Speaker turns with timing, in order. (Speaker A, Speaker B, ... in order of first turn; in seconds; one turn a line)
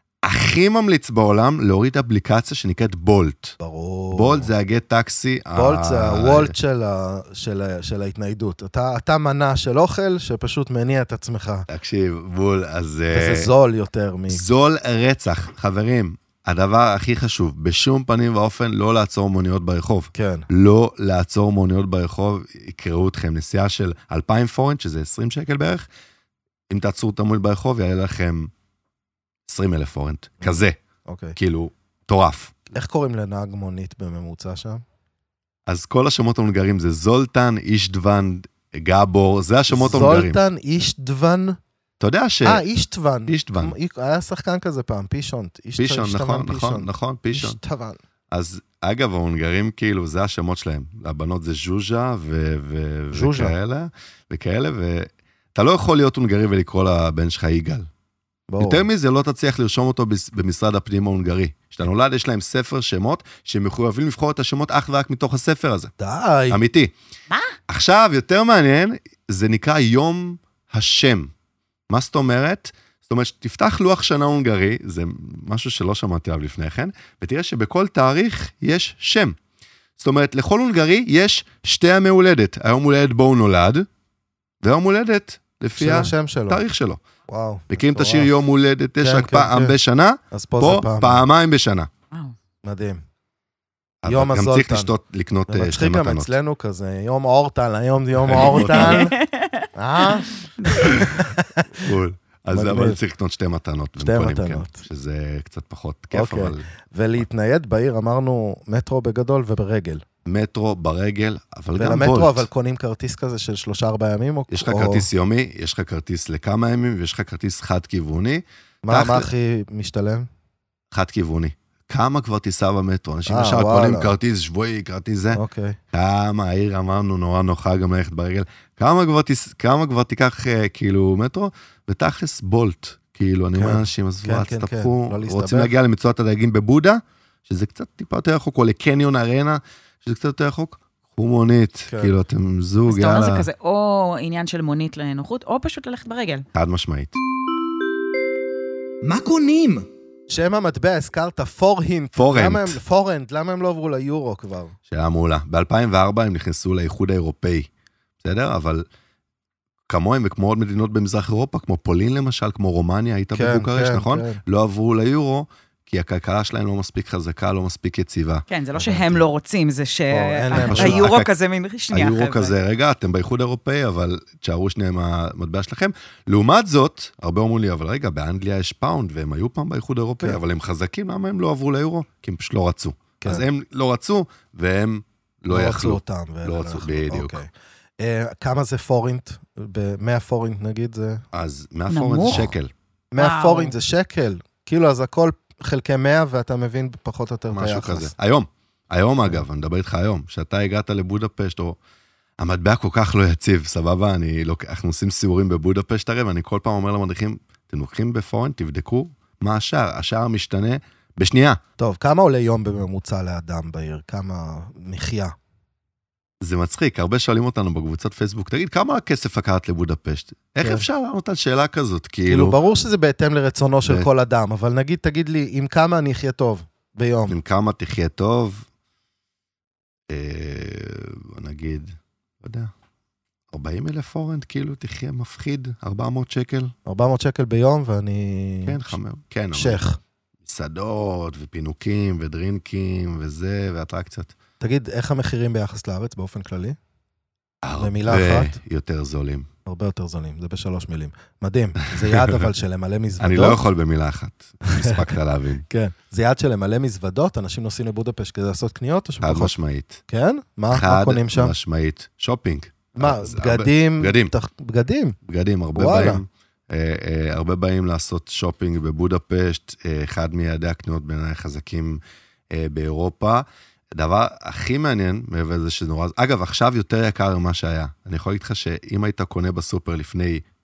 Speaker A: 0.2-3.6
Speaker B: 3.6-4.5
Speaker A: 4.1-6.5
Speaker B: 5.5-11.7
Speaker A: 11.7-13.5
Speaker B: 13.1-14.4
Speaker A: 14.3-25.9
Speaker B: 20.1-20.5
Speaker A: 26.7-28.5
Speaker A: 29.5-30.8
Speaker B: 30.4-31.4
Speaker A: 31.4-32.6
Speaker B: 32.7-34.8
Speaker A: 35.7-40.4
Speaker B: 39.7-41.6
Speaker A: 42.0-42.6
Speaker B: 42.4-48.0
Speaker A: 43.3-43.7
Speaker A: 45.8-47.6
Speaker A: 48.3-57.9
Speaker B: 53.1-53.5
Speaker B: 58.5-58.9
Speaker A: 58.6-65.9
Speaker B: 66.0-66.6
Speaker A: 66.5-66.9
Speaker C: 67.3-67.5
Speaker A: 67.7-71.3
Speaker A: 71.9-79.4
Speaker A: 80.0-83.9
Speaker A: 84.6-87.0
Speaker B: 85.8-86.6
Speaker B: 87.3-88.3
Speaker A: 87.7-91.9
Speaker B: 89.0-89.7
Speaker B: 90.3-91.2
Speaker B: 92.6-93.0
Speaker A: 94.0-96.3
Speaker B: 94.0-94.9
Speaker B: 95.5-99.1
Speaker A: 98.2-99.1
Speaker C: 98.3-101.0
Speaker B: 99.8-101.8
Speaker A: 100.8-101.2
Speaker A: 101.8-106.7
Speaker B: 102.5-103.0
Speaker B: 104.0-104.8
Speaker B: 106.1-110.0
Speaker A: 110.2-112.5
Speaker B: 111.7-115.1
Speaker A: 114.5-119.3
Speaker B: 118.8-120.3
Speaker A: 120.9-125.4
Speaker B: 123.3-124.1
Speaker B: 125.3-125.8
Speaker A: 125.9-143.5
Speaker B: 133.5-135.7
Speaker B: 141.9-142.1
Speaker C: 142.9-146.4
Speaker A: 146.5-147.2
Speaker B: 149.1-154.7
Speaker A: 152.2-152.8
Speaker A: 154.9-157.7
Speaker A: 158.2-158.8
Speaker A: 159.9-168.4
Speaker B: 163.3-164.4
Speaker C: 168.5-172.6
Speaker B: 168.7-169.2
Speaker B: 170.1-171.1
Speaker A: 170.5-171.3
Speaker A: 171.9-187.4
Speaker B: 185.5-191.2
Speaker A: 191.3-192.7
Speaker C: 191.9-192.5
Speaker B: 193.1-198.1
Speaker C: 193.2-193.8
Speaker A: 197.5-201.8
Speaker A: 202.4-211.6
Speaker B: 211.8-215.3
Speaker A: 216.4-222.6
Speaker B: 222.2-227.4
Speaker A: 227.3-228.7
Speaker A: 230.1-232.7
Speaker A: 233.5-236.7
Speaker B: 236.8-238.9
Speaker A: 238.7-239.8
Speaker B: 239.5-240.0
Speaker A: 240.4-244.3
Speaker B: 244.6-246.8
Speaker A: 247.6-249.5
Speaker B: 247.8-248.6
Speaker B: 249.7-253.6
Speaker A: 252.0-252.4
Speaker A: 253.2-255.7
Speaker B: 254.6-255.1
Speaker B: 255.7-259.5
Speaker A: 259.2-260.0
Speaker B: 260.1-261.5
Speaker A: 260.7-264.3
Speaker B: 263.0-265.2
Speaker A: 265.2-280.4
Speaker B: 265.7-266.2